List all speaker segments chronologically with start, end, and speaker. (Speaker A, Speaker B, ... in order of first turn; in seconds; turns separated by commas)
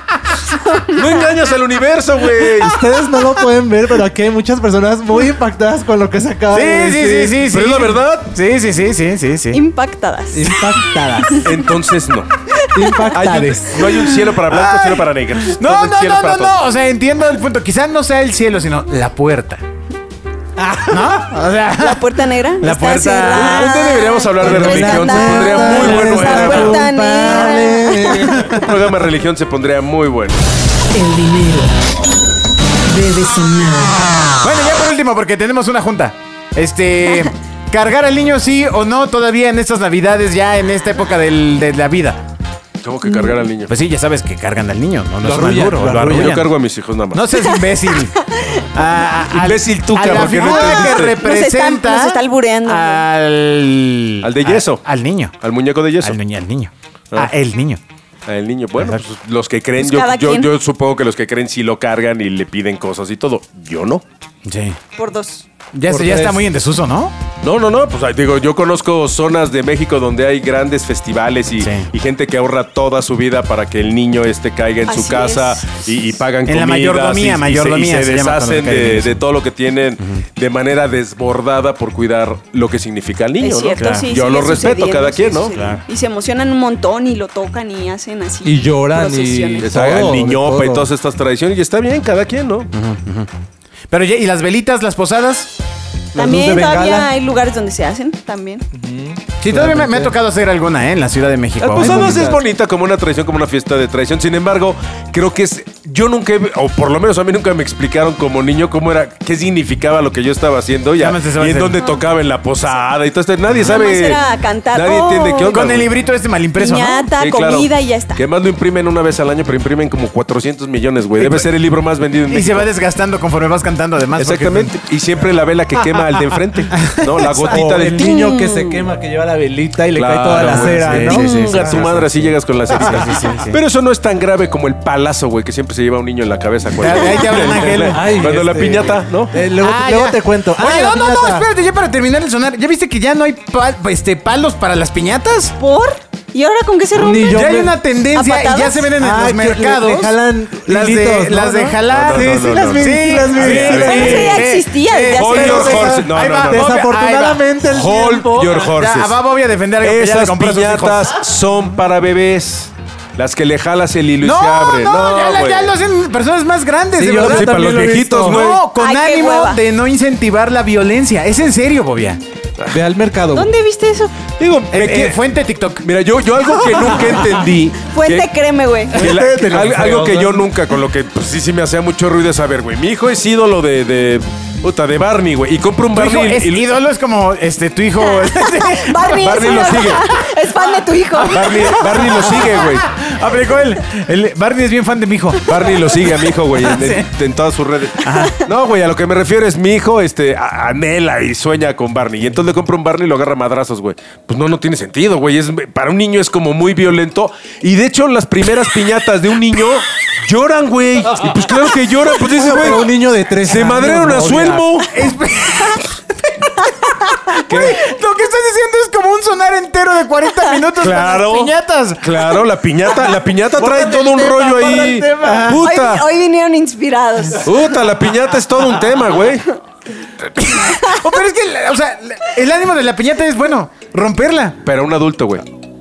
Speaker A: 0.5-2.8, Speaker B: 0.5-1.0, Speaker C: 2.5-7.5, Speaker D: 6.5-9.6, Speaker A: 7.5-8.3, Speaker B: 9.5-10.5, Speaker C: 10.3-11.5, Speaker A: 11.4-12.3, Speaker B: 12.6-13.4, Speaker C: 12.7-13.9, Speaker A: 13.1-16.6, Speaker D: 13.9-19.6, Speaker C: 20.6-21.1, Speaker D: 20.9-22.1, Speaker B: 21.8-28.5, Speaker D: 22.6-24.0, Speaker A: 23.3-26.8, Speaker C: 24.4-28.6, Speaker D: 25.7-27.7, Speaker A: 28.6-30.4, Speaker E: 30.9-31.8, Speaker E: 32.9-34.2, Speaker D: 34.4-42.2, Speaker A: 42.8-43.7, Speaker B: 43.0-43.4, Speaker D: 43.7-46.5, Speaker C: 45.2-46.4, Speaker A: 46.0-47.2, Speaker D: 47.1-48.1, Speaker D: 48.7-55.3, Speaker A: 49.3-51.2, Speaker B: 50.1-53.0, Speaker A: 54.2-54.8, Speaker A: 55.4-56.2, Speaker D: 56.0-57.8, Speaker A: 58.3-64.0, Speaker B: 59.8-60.5, Speaker D: 64.5-64.8, Speaker B: 65.0-65.5, Speaker D: 65.7-67.2, Speaker C: 65.9-66.4, Speaker A: 67.4-85.5, Speaker D: 71.6-71.9, Speaker B: 74.9-75.6, Speaker D: 76.5-79.2, Speaker B: 83.4-90.0, Speaker D: 83.8-84.1, Speaker D: 85.5-85.8, Speaker C: 88.4-90.9, Speaker A: 89.6-92.7, Speaker D: 92.7-93.3, Speaker D: 93.9-95.5, Speaker C: 96.1-97.1, Speaker B: 96.2-98.6, Speaker C: 98.7-100.1, Speaker D: 99.4-102.3, Speaker A: 101.6-114.2, Speaker C: 101.8-102.4, Speaker D: 111.0-111.8, Speaker B: 113.6-115.7, Speaker A: 114.7-115.9, Speaker D: 115.5-117.1, Speaker B: 116.6-118.2, Speaker A: 117.2-122.7, Speaker D: 122.3-124.7, Speaker A: 124.2-128.9, Speaker D: 126.7-128.0, Speaker C: 127.5-131.9, Speaker A: 129.9-139.3, Speaker D: 130.4-133.6, Speaker C: 132.7-133.1, Speaker D: 136.7-138.0, Speaker C: 137.5-141.5, Speaker D: 139.6-145.5, Speaker B: 145.6-147.5, Speaker C: 146.9-147.7, Speaker D: 147.0-157.5, Speaker B: 148.1-148.9, Speaker C: 149.0-154.4, Speaker A: 151.9-154.5, Speaker B: 153.9-156.0, Speaker A: 155.1-156.8, Speaker C: 156.5-158.7, Speaker A: 157.6-159.2, Speaker D: 158.6-161.2, Speaker A: 159.8-165.7, Speaker D: 164.2-172.2, Speaker C: 166.9-168.4, Speaker A: 167.2-168.6, Speaker B: 168.8-169.6, Speaker C: 172.7-173.5, Speaker B: 173.3-174.2, Speaker A: 174.4-175.2, Speaker D: 174.7-175.9, Speaker A: 175.8-178.3, Speaker B: 177.9-179.0, Speaker C: 178.9-180.5, Speaker A: 178.9-186.7, Speaker D: 185.9-189.5, Speaker B: 188.0-191.9, Speaker A: 189.2-190.1, Speaker A: 191.3-192.9, Speaker D: 191.3-197.1, Speaker A: 195.5-212.9, Speaker D: 198.0-198.4, Speaker C: 212.2-214.7, Speaker A: 213.5-215.1, Speaker D: 214.9-215.9, Speaker B: 216.6-217.2, Speaker D: 217.3-222.2, Speaker A: 217.5-217.8, Speaker A: 220.8-226.0, Speaker C: 223.5-225.6, Speaker D: 225.3-225.6, Speaker B: 225.6-227.5, Speaker A: 227.4-229.5, Speaker D: 230.5-234.6, Speaker A: 234.6-235.5